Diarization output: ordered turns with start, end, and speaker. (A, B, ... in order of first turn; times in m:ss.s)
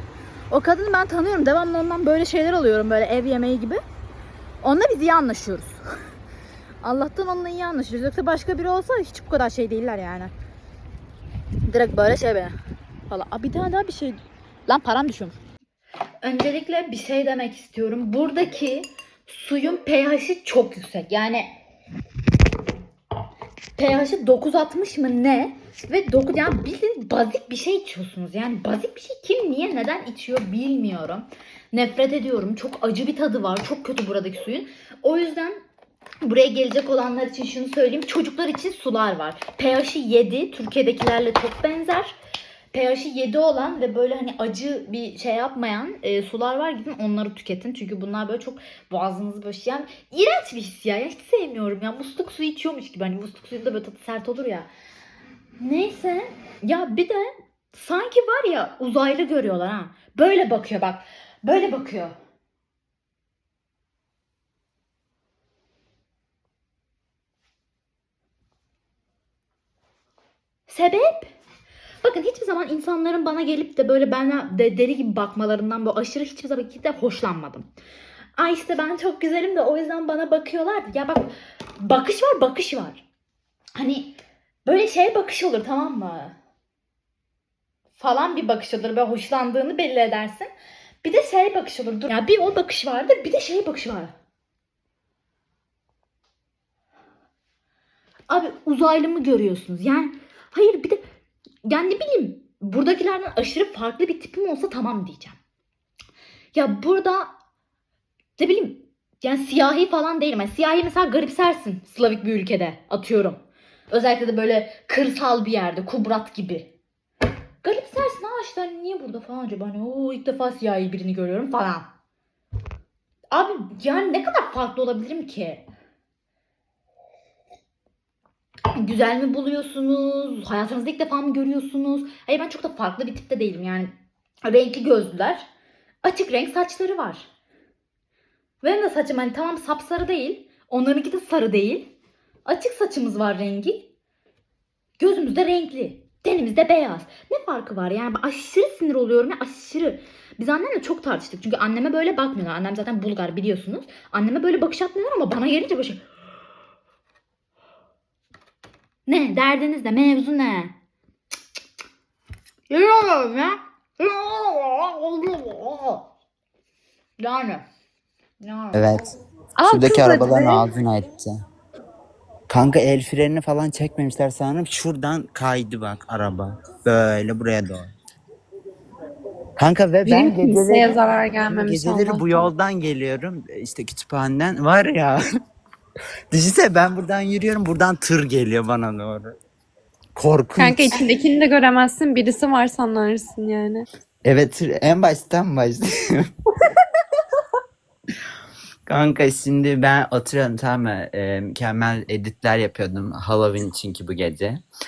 0:00.5-0:03.8 A
0:04.6-0:05.8 A
0:06.8-0:10.3 A
0:11.7-0:12.6 A
0:13.1-0:15.4 A
0:16.2-0:21.6 A
0:23.8-0:35.6 A
0:36.2-0:42.2 A
0:42.7-0:54.7 A
0:55.6-1:02.2 A
1:10.7-1:11.3 A
1:12.0-1:17.7 A
1:18.4-1:21.3 A
1:21.8-1:23.0 A
1:23.8-1:26.4 A
1:28.0-1:30.5 A
1:31.0-1:34.1 A
1:38.3-1:41.0 A
1:41.6-1:45.4 A
1:46.5-1:47.3 A
1:48.4-1:56.7 A
1:57.6-2:01.9 A
2:03.3-2:05.7 A
2:08.7-2:13.9 A
2:14.4-2:15.5 A
2:16.0-2:17.3 A
2:18.6-2:21.9 A
2:22.4-2:23.9 A
2:25.0-2:36.0 A
2:39.1-2:40.8 A
2:42.7-2:46.1 A
2:47.2-2:47.6 A
2:48.4-2:48.8 A
2:48.7-2:49.2 B
2:49.6-2:50.7 C
2:49.7-2:51.4 B
2:52.5-2:57.9 B
2:59.6-3:05.2 B
3:00.0-3:02.5 C
3:06.3-3:09.3 B
3:10.2-3:11.0 B
3:10.6-3:13.8 C
3:14.2-3:16.3 B
3:18.9-3:24.6 B